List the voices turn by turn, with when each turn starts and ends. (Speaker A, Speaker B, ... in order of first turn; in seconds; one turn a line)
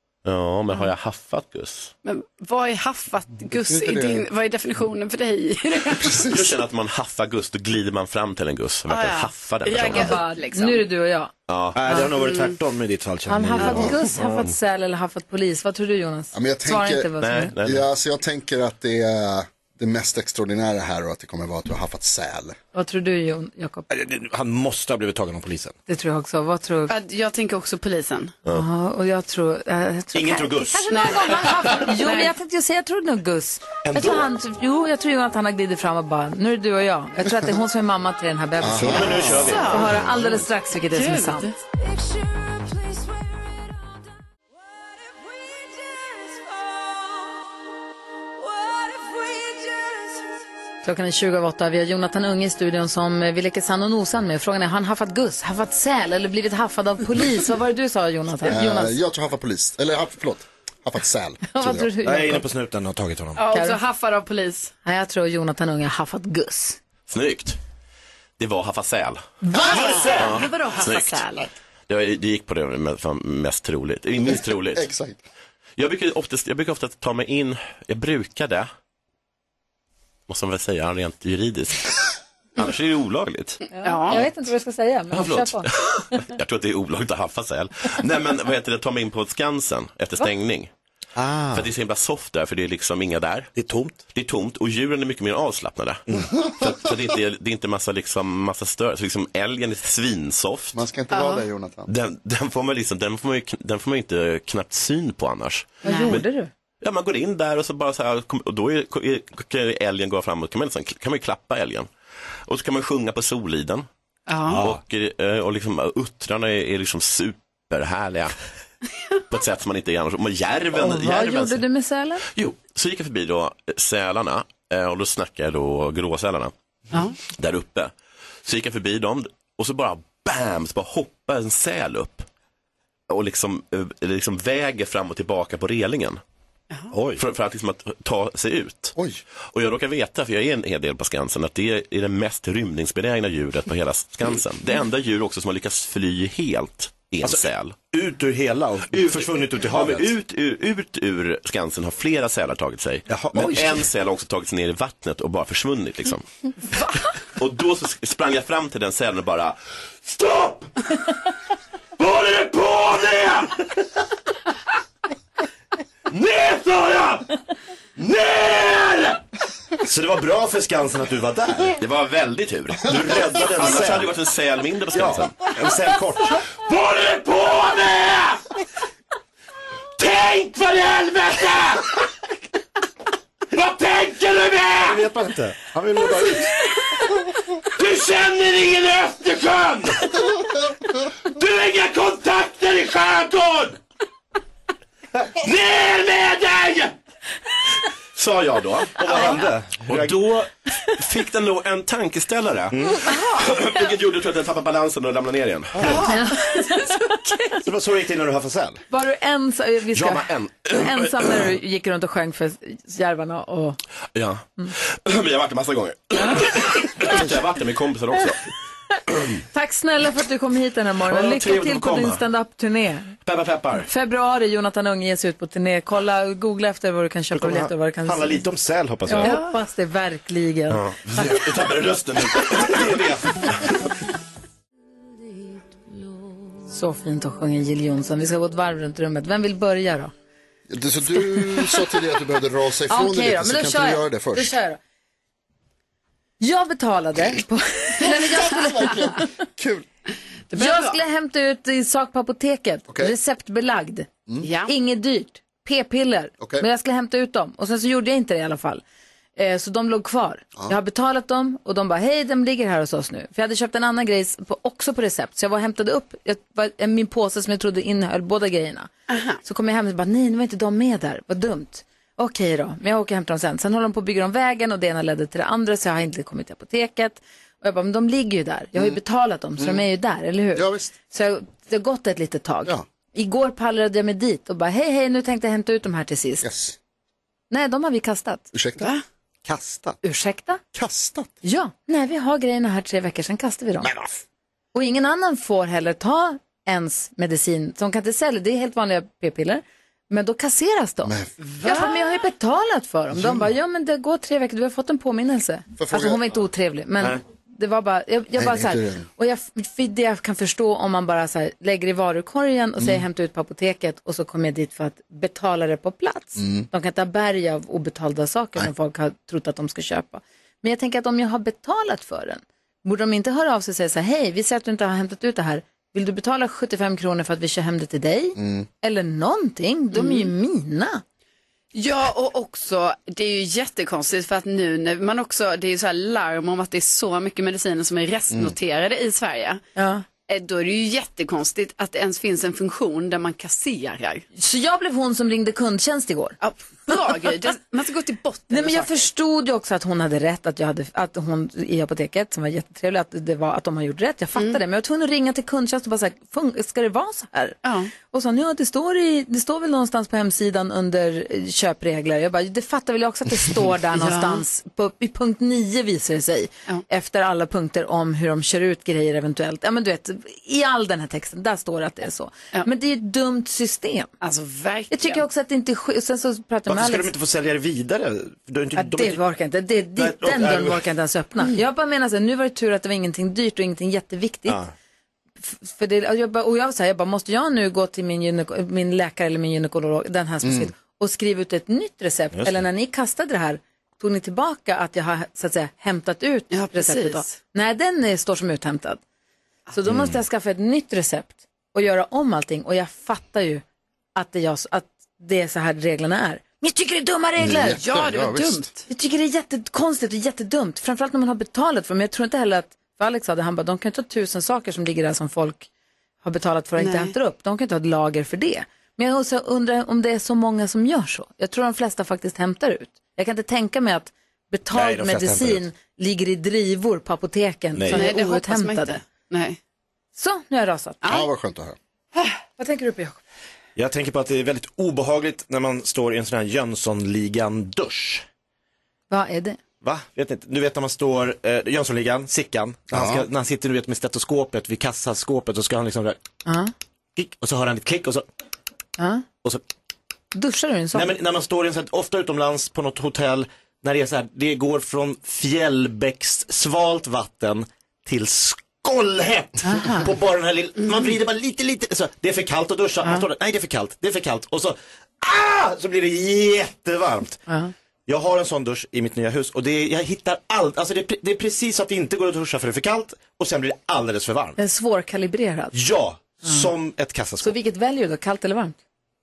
Speaker A: 0.2-1.9
Speaker B: 2.0-6.2
Speaker C: 3.5-4.3
Speaker C: 6.0-6.6
Speaker A: 6.3-10.2
Speaker B: 8.9-10.9
Speaker D: 9.8-11.3
Speaker A: 11.5-11.9
Speaker E: 11.7-14.3
Speaker B: 12.2-12.6
Speaker D: 13.3-17.5
Speaker C: 16.3-22.6
Speaker A: 17.2-17.9
Speaker D: 22.7-23.9
Speaker E: 23.9-25.8
Speaker D: 25.9-27.0
Speaker B: 26.9-28.3
Speaker D: 28.5-41.5
Speaker E: 30.1-30.9
Speaker B: 30.9-32.3
Speaker E: 33.8-34.3
Speaker C: 38.6-40.3
Speaker E: 38.8-39.8
Speaker B: 39.4-39.9
Speaker B: 40.9-41.5
Speaker D: 50.8-59.0
Speaker C: 58.5-61.9
Speaker D: 61.5-62.5
Speaker E: 62.0-63.4
Speaker B: 63.4-64.7
Speaker D: 63.5-63.8
Speaker D: 64.8-66.8
Speaker A: 67.1-67.6
Speaker A: 68.4-69.4
Speaker D: 69.5-69.7
Speaker B: 69.5-71.5
Speaker C: 69.5-70.2
Speaker A: 70.2-71.2
Speaker A: 71.9-74.8
Speaker C: 74.3-75.2
Speaker A: 75.8-78.7
Speaker A: 80.3-82.0
Speaker A: 82.6-84.2
Speaker D: 83.7-85.7
Speaker B: 83.8-84.2
Speaker A: 85.1-90.7
Speaker E: 91.2-91.6
Speaker A: 91.5-93.5
Speaker E: 93.5-94.0
Speaker A: 94.1-96.0
Speaker E: 96.1-96.4
Speaker C: 96.4-96.7
Speaker A: 96.6-100.8
Speaker C: 100.7-101.9
Speaker B: 101.1-101.5
Speaker A: 101.9-106.3
Speaker D: 105.8-106.5
Speaker B: 105.8-106.2
Speaker A: 106.8-111.9
Speaker A: 112.5-113.9
Speaker B: 114.3-114.6
Speaker E: 114.5-114.8
Speaker A: 114.5-118.3
Speaker A: 119.3-121.6
Speaker D: 120.7-122.2
Speaker A: 122.3-126.5
Speaker B: 126.9-127.2
Speaker A: 127.3-127.9
Speaker A: 128.4-132.3
Speaker A: 133.1-136.2
Speaker E: 136.9-137.2
Speaker A: 137.2-138.9
Speaker A: 139.5-147.8
Speaker E: 147.2-150.1
Speaker A: 148.9-156.3
Speaker E: 153.1-153.8
Speaker A: 157.4-160.7
Speaker A: 162.0-163.5
Speaker A: 166.1-167.3
Speaker A: 168.0-169.2
Speaker E: 169.8-171.8
Speaker A: 171.8-175.5
Speaker E: 172.9-174.1
Speaker E: 174.9-176.4
Speaker A: 176.5-178.4
Speaker A: 180.0-181.9
Speaker A: 183.5-185.0
Speaker E: 184.7-186.5
Speaker A: 187.8-190.2
Speaker A: 191.3-193.8
Speaker A: 195.4-197.0
Speaker A: 198.2-206.1
Speaker E: 199.0-200.4
Speaker E: 202.7-203.0
Speaker E: 205.7-206.1
Speaker D: 206.1-207.2
Speaker E: 207.6-208.8
Speaker D: 208.9-213.8
Speaker A: 209.9-211.3
Speaker A: 214.2-218.4
Speaker D: 219.5-223.1
Speaker A: 221.1-222.2
Speaker A: 223.2-223.9
Speaker D: 223.9-228.4
Speaker E: 227.3-229.4
Speaker D: 229.1-231.5
Speaker B: 229.2-229.4
Speaker A: 230.7-233.7
Speaker E: 232.4-233.5
Speaker D: 236.7-240.1
Speaker C: 240.7-244.6
Speaker D: 242.9-244.8
Speaker D: 246.4-249.3
Speaker C: 248.5-249.9
Speaker B: 250.5-251.0
Speaker D: 250.5-254.1
Speaker C: 252.9-253.1
Speaker B: 254.4-254.7
Speaker D: 254.7-258.8
Speaker D: 259.4-268.9
Speaker B: 269.1-269.4
Speaker D: 269.4-286.5
Speaker C: 280.5-280.9
Speaker C: 286.4-286.8
Speaker D: 287.5-288.5
Speaker C: 288.5-288.9
Speaker B: 288.8-289.0
Speaker E: 289.5-289.9
Speaker D: 290.0-290.6
Speaker C: 290.7-291.3
Speaker D: 291.4-293.9
Speaker C: 293.8-294.1
Speaker D: 294.7-331.0
Speaker C: 301.0-301.3
Speaker B: 301.5-302.0
Speaker C: 303.1-303.5
Speaker C: 305.8-306.4
Speaker C: 308.4-309.1
Speaker C: 316.4-316.7
Speaker C: 328.4-328.7
Speaker B: 329.9-330.3
Speaker B: 331.7-339.6
Speaker D: 339.8-340.1
Speaker B: 340.3-344.2
Speaker D: 344.4-346.4
Speaker B: 346.4-349.1
Speaker D: 348.5-374.1
Speaker B: 357.6-357.9
Speaker B: 363.9-364.4
Speaker B: 374.2-375.2
Speaker D: 374.9-377.1
Speaker E: 376.7-379.2
Speaker D: 378.8-384.6
Speaker E: 380.0-380.9
Speaker D: 385.4-399.0
Speaker C: 390.4-390.7
Speaker E: 392.3-392.6
Speaker B: 396.5-397.4
Speaker D: 399.7-403.6
Speaker D: 404.1-407.8
Speaker C: 407.4-408.7
Speaker B: 407.7-408.8
Speaker D: 408.9-415.7
Speaker D: 416.2-429.0
Speaker B: 416.8-417.1
Speaker E: 424.7-425.6
Speaker E: 427.8-428.1
Speaker B: 427.9-429.6
Speaker D: 430.2-431.0
Speaker C: 431.1-431.8
Speaker D: 432.6-433.2
Speaker E: 433.8-438.2
Speaker D: 439.1-439.6
Speaker E: 439.8-446.2
Speaker C: 442.9-443.3
Speaker D: 446.4-446.7
Speaker E: 447.2-448.2
Speaker D: 449.0-449.2
Speaker D: 450.3-451.1
Speaker E: 450.9-467.4
Speaker D: 459.6-460.1
Speaker E: 468.1-474.6
Speaker D: 474.6-475.8
Speaker E: 475.7-477.6
Speaker D: 477.4-478.8